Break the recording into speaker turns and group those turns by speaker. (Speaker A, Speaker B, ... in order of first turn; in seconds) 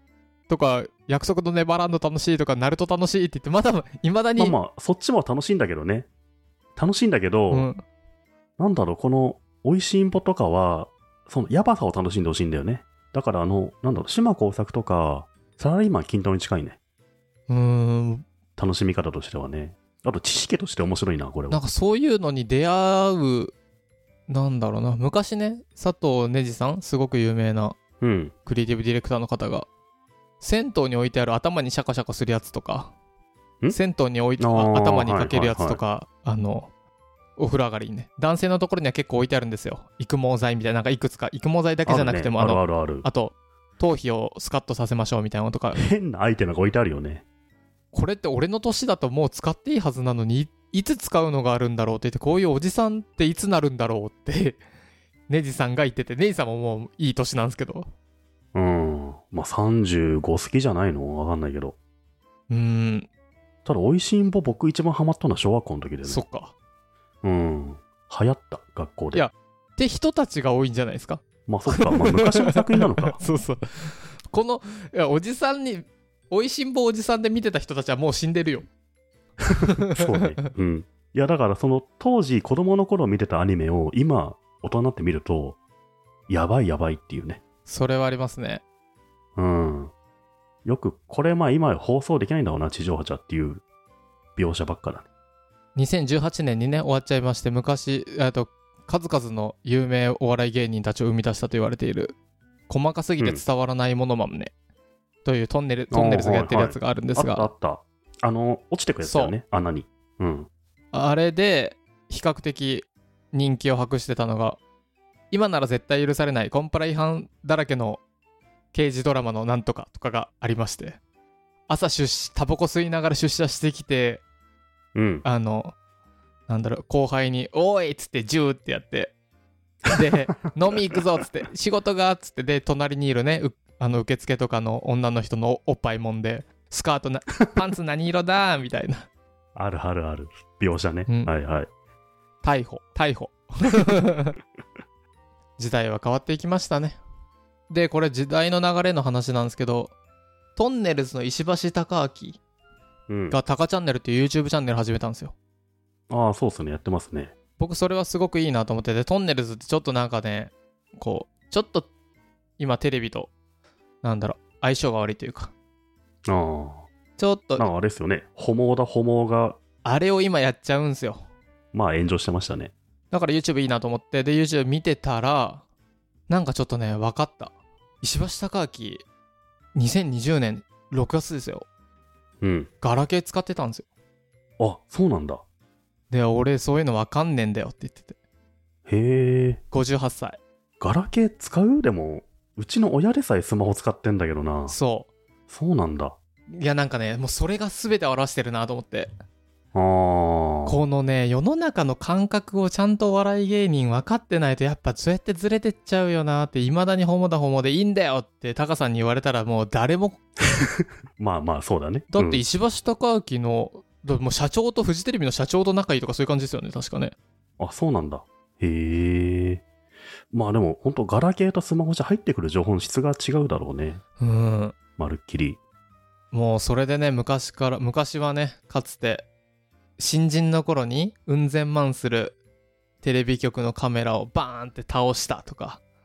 Speaker A: 0.5-4.6, 7.5-7.8, 17.5-18.3, 21.5-23.5, 24.3-27.8, 28.5-29.7, 30.4-32.9, 33.7-36.7, 37.4-45.8, 47.9-54.6, 55.3-57.9, 62.5-63.1, 66.0-66.5, 69.1-78.7, 79.5-80.0, 87.7-88.6, 95.8-102.2, 102.7-104.5, 105.2-107.5, 109.0-109.3, 110.9-114.6, 115.3-118.0, 118.7-121.0, 121.7-124.2, 125.2-125.8, 126.5-129.2, 129.9-139.1, 142.4-144.4, 145.6-147.0, 147.7-149.9, 150.6-152.4, 153.3-155.3, 157.6-161.9, 162.6-163.3, 164.0-165.5, 167.2-167.7, 169.8-171.2, 173.1-175.6, 176.3-179.1, 179.8-181.7, 182.8-183.9, 186.1-188.2, 189.7-190.4, 194.7-195.1, 196.5-199.1, 200.7-210.2, 212.1-217.2, 224.2-224.8, 226.3-229.3, 230.0-232.4, 233.0-235.8
Speaker B: 4.4-6.1, 6.8-7.7, 8.6-16.8, 18.6-21.6, 28.0-28.3, 34.4-35.8, 41.9-43.1, 45.7-47.2, 58.5-61.8, 63.6-66.2, 67.2-69.3, 71.5-73.2, 79.9-85.6, 86.3-87.4, 89.4-89.9, 90.7-93.6, 94.4-95.1, 105.9-110.5, 125.0-125.2, 139.6-141.7, 153.1-153.4, 156.1-157.3, 166.3-166.9, 167.6-169.6, 171.7-172.7, 182.4-182.7, 184.6-185.4, 188.9-189.6, 190.8-194.8, 195.5-196.2, 199.7-200.8, 210.8-212.5, 217.6-219.6, 220.3-224.0, 225.0-225.6